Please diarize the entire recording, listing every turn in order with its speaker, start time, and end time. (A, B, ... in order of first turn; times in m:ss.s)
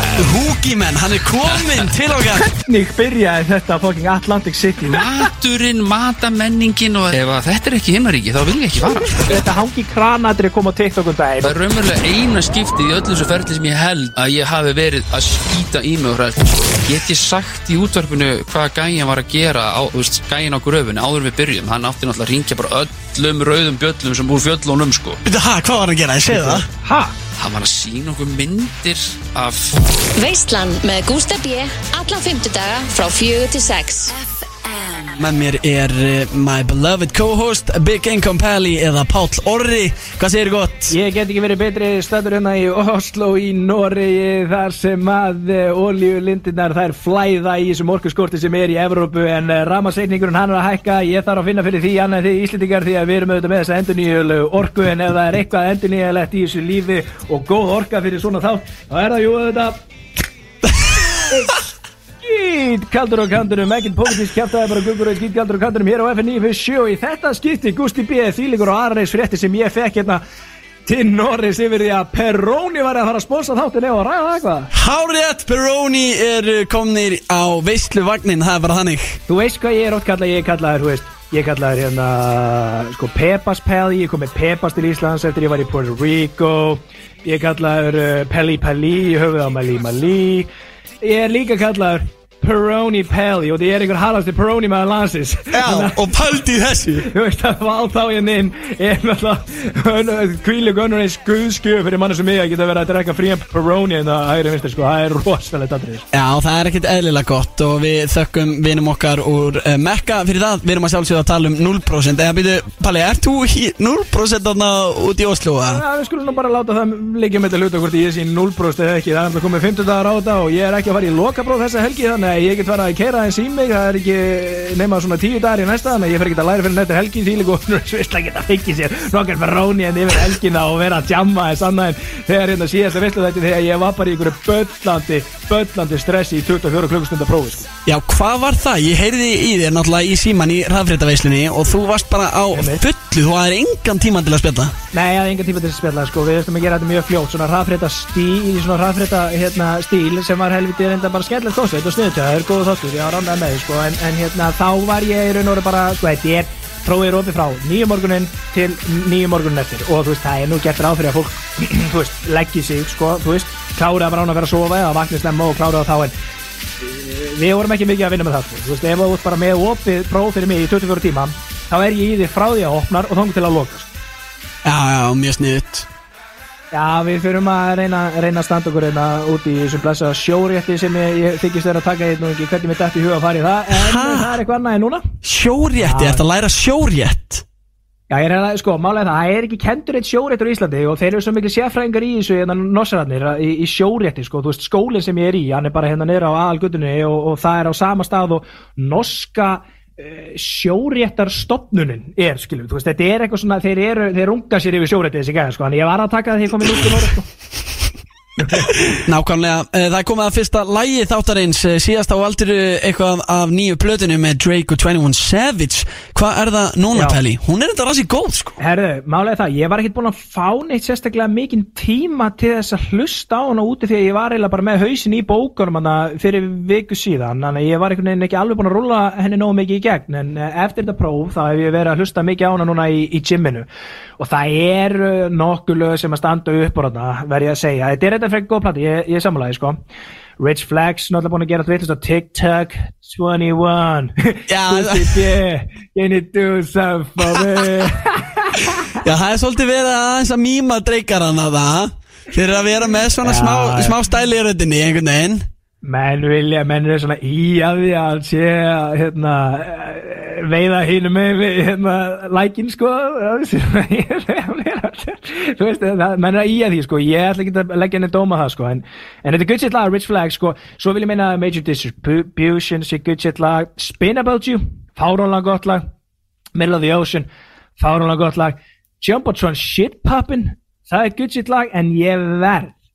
0:00.2-0:02.5 A
0:01.6-0:01.9 B
0:02.5-0:05.0 C
0:04.8-0:09.4 B
0:09.2-0:11.6 C
0:11.4-0:25.2 B
0:25.2-0:26.7 A
0:26.3-0:27.2 C
0:27.4-0:30.0 B
0:30.2-0:34.2 D
0:35.2-0:41.0 A
0:40.9-0:59.8 C
1:01.3-1:01.6 C
1:02.2-1:10.2 C
1:10.9-1:14.7 C
1:14.7-1:19.2 A
1:19.3-1:30.5 C
1:31.0-1:36.1 C
1:35.5-1:37.1 A
1:37.0-1:46.1 C
1:46.1-1:55.8 A
1:55.7-2:17.7 C
2:17.8-2:24.8 A
2:22.5-2:22.8 C
2:24.9-2:46.1 C
2:46.8-2:53.9 C
2:54.6-2:55.9 A
2:56.7-3:05.1 C
3:03.7-3:04.4 A
3:05.2-3:07.4 A
3:05.8-3:06.2 C
3:08.1-3:27.3 C
3:28.4-3:28.9 C
3:28.8-3:38.6 A
3:36.9-3:37.2 C
3:38.6-3:53.7 C
3:54.2-3:59.8 C
4:00.4-4:08.9 C
4:04.5-4:05.4 A
4:07.2-4:07.9 A
4:09.0-4:15.5 A
4:13.2-4:14.0 C
4:15.8-4:35.8 C
4:36.6-4:37.3 C
4:37.8-4:42.8 C